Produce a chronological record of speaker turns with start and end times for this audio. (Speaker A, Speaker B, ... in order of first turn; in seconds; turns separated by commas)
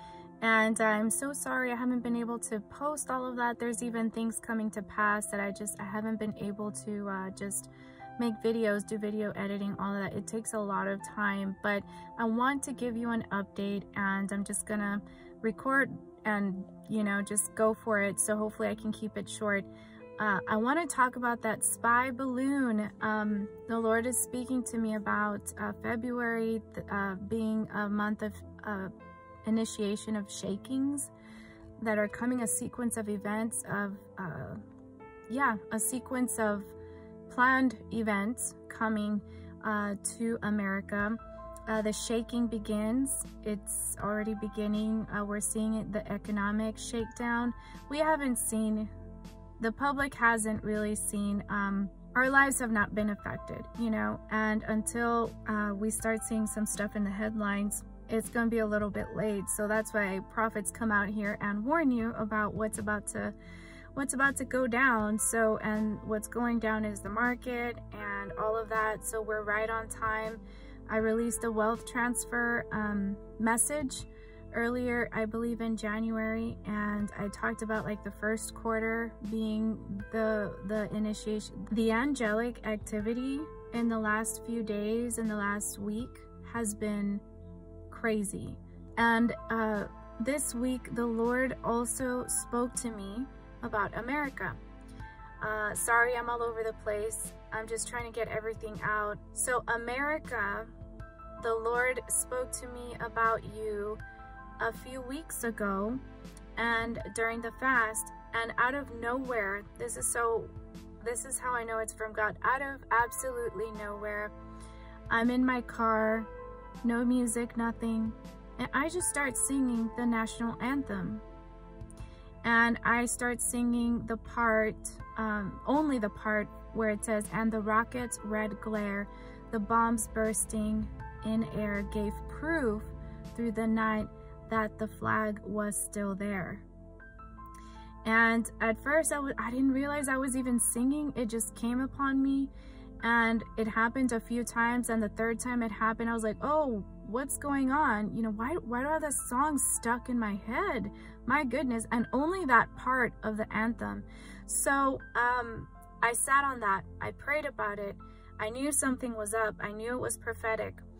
Speaker A: 0.4-28.9, Speaker A: 29.4-31.1, Speaker A: 31.8-34.6, Speaker A: 35.3-36.7, Speaker A: 37.3-48.9, Speaker A: 49.6-63.4, Speaker A: 64.0-87.2, Speaker A: 87.9-94.6, Speaker A: 95.4-100.7, Speaker A: 101.4-104.0, Speaker A: 104.6-106.0, Speaker A: 106.6-114.3, Speaker A: 115.1-116.3, Speaker A: 116.8-121.2, Speaker A: 122.4-136.7, Speaker A: 138.0-142.5, Speaker A: 143.0-160.8